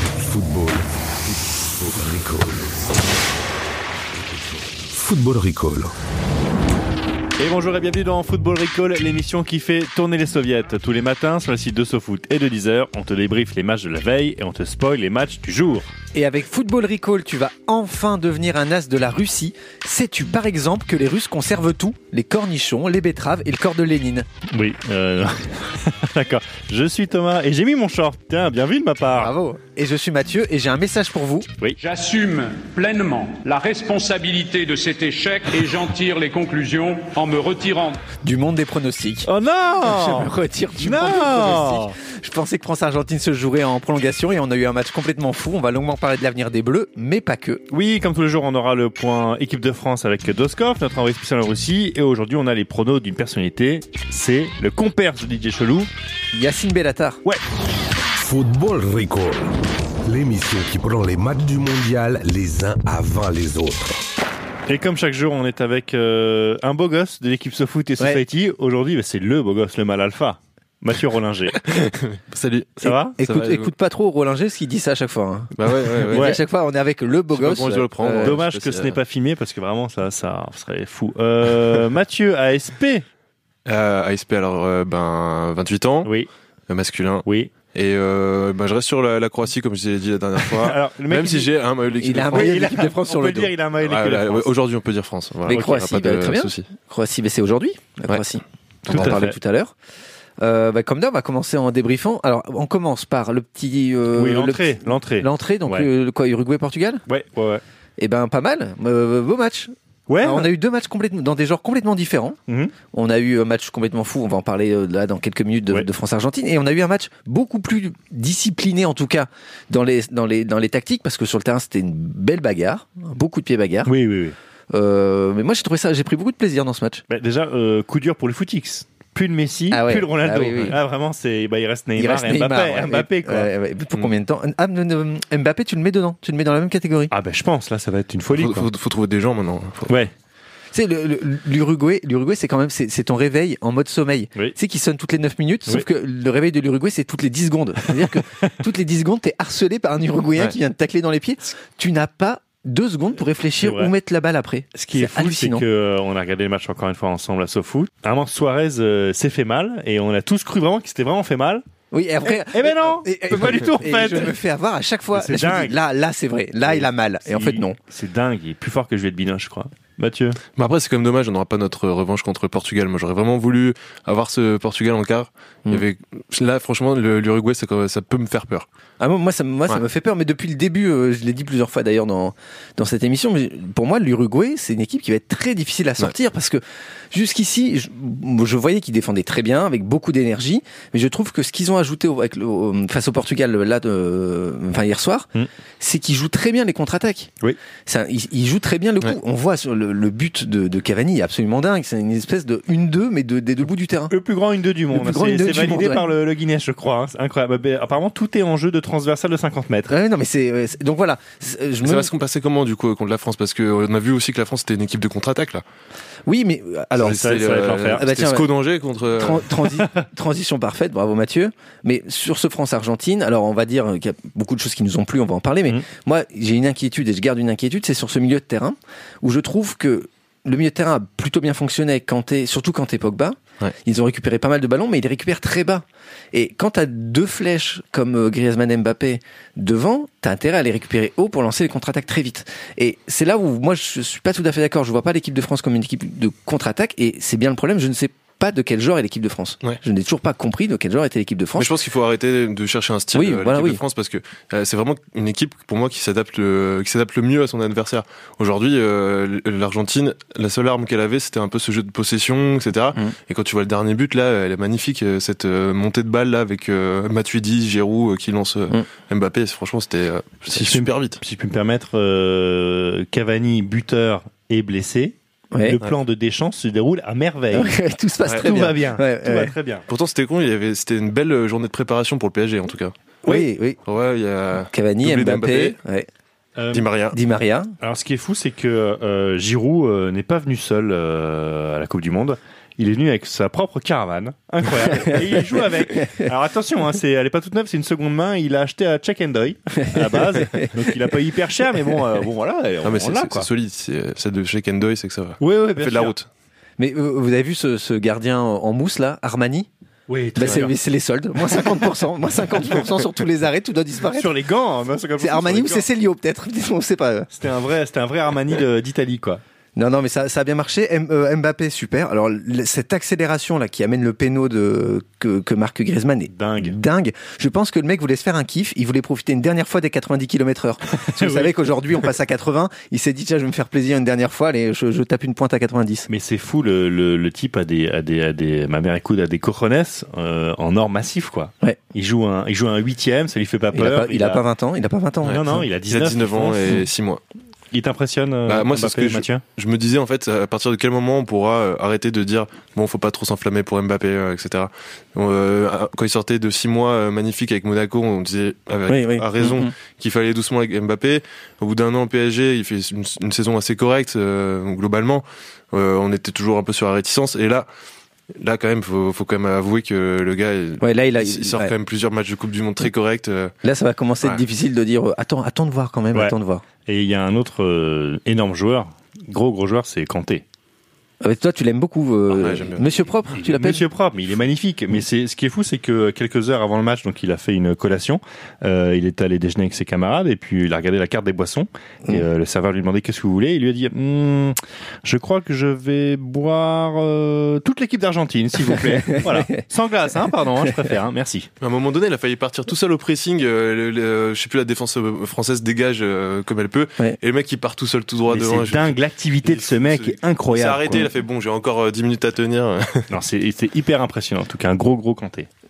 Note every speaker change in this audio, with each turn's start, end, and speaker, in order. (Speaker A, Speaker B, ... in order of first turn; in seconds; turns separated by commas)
Speaker A: 0.2-2.7, Speaker A: 4.2-5.9, Speaker B: 7.4-15.9, Speaker C: 16.1-24.3, Speaker B: 24.5-29.3, Speaker C: 29.1-31.5, Speaker D: 31.8-38.0, Speaker C: 38.2-39.3, Speaker B: 39.2-41.9, Speaker C: 39.8-47.6, Speaker B: 47.7-55.9, Speaker C: 56.3-57.2, Speaker A: 58.2-59.5, Speaker A: 60.0-64.0, Speaker B: 64.7-71.6, Speaker E: 71.7-73.7, Speaker B: 72.8-73.2, Speaker C: 73.1-78.4, Speaker E: 75.6-76.3, Speaker B: 76.1-76.4, Speaker E: 77.3-79.0, Speaker B: 78.2-83.0, Speaker E: 83.7-86.1, Speaker E: 86.7-92.9, Speaker B: 87.2-87.5, Speaker B: 90.5-91.5, Speaker C: 92.0-93.5, Speaker B: 92.1-94.5, Speaker E: 93.8-96.7, Speaker C: 95.5-99.7, Speaker E: 98.9-99.2, Speaker B: 98.9-99.4, Speaker C: 100.4-107.0, Speaker B: 104.1-105.9, Speaker B: 107.1-107.6, Speaker C: 108.0-112.4, Speaker B: 110.1-110.5, Speaker C: 112.9-123.9, Speaker B: 123.8-124.3, Speaker C: 124.7-127.0, Speaker B: 127.1-133.5, Speaker C: 129.7-130.8, Speaker C: 132.0-137.1, Speaker B: 137.1-138.7, Speaker E: 138.3-139.9, Speaker C: 140.7-155.6, Speaker B: 148.0-148.5, Speaker B: 153.6-153.9, Speaker B: 154.7-161.6, Speaker C: 161.9-167.8, Speaker B: 162.4-164.4, Speaker B: 165.1-165.8, Speaker B: 166.7-170.4, Speaker E: 170.6-178.7, Speaker C: 179.0-197.3, Speaker C: 197.8-204.1, Speaker B: 204.1-209.9, Speaker C: 204.9-206.1, Speaker C: 209.9-212.1, Speaker E: 211.8-215.6, Speaker C: 216.2-218.5, Speaker B: 217.0-218.0, Speaker E: 217.0-219.5, Speaker C: 219.2-251.8, Speaker B: 219.8-220.1, Speaker E: 251.6-271.2, Speaker C: 253.1-253.8, Speaker B: 270.5-277.8, Speaker C: 275.5-275.8, Speaker C: 277.5-279.5, Speaker B: 278.3-279.8, Speaker E: 279.9-282.9, Speaker C: 283.2-283.8, Speaker E: 283.9-285.8, Speaker C: 284.7-286.1, Speaker B: 286.6-286.9, Speaker E: 286.7-287.2, Speaker C: 287.1-287.7, Speaker B: 287.8-303.5, Speaker C: 299.8-300.7, Speaker E: 302.8-306.3, Speaker B: 305.4-306.1, Speaker C: 306.8-309.7, Speaker B: 310.1-310.8, Speaker C: 310.4-314.3, Speaker B: 314.1-315.9, Speaker C: 315.2-317.3, Speaker B: 317.3-319.4, Speaker C: 319.8-336.1, Speaker B: 326.3-326.8, Speaker B: 331.0-331.5, Speaker B: 336.1-344.4, Speaker C: 343.7-345.6, Speaker B: 345.2-346.8, Speaker E: 345.3-347.2, Speaker B: 347.7-349.4, Speaker E: 348.4-367.7, Speaker C: 358.9-359.7, Speaker E: 368.3-373.5, Speaker C: 370.8-371.7, Speaker C: 373.6-376.6, Speaker B: 376.1-380.4, Speaker C: 381.2-383.8, Speaker E: 382.3-382.9, Speaker B: 383.3-401.5, Speaker C: 398.8-399.5, Speaker E: 401.6-413.1, Speaker B: 408.3-411.1, Speaker B: 413.1-415.5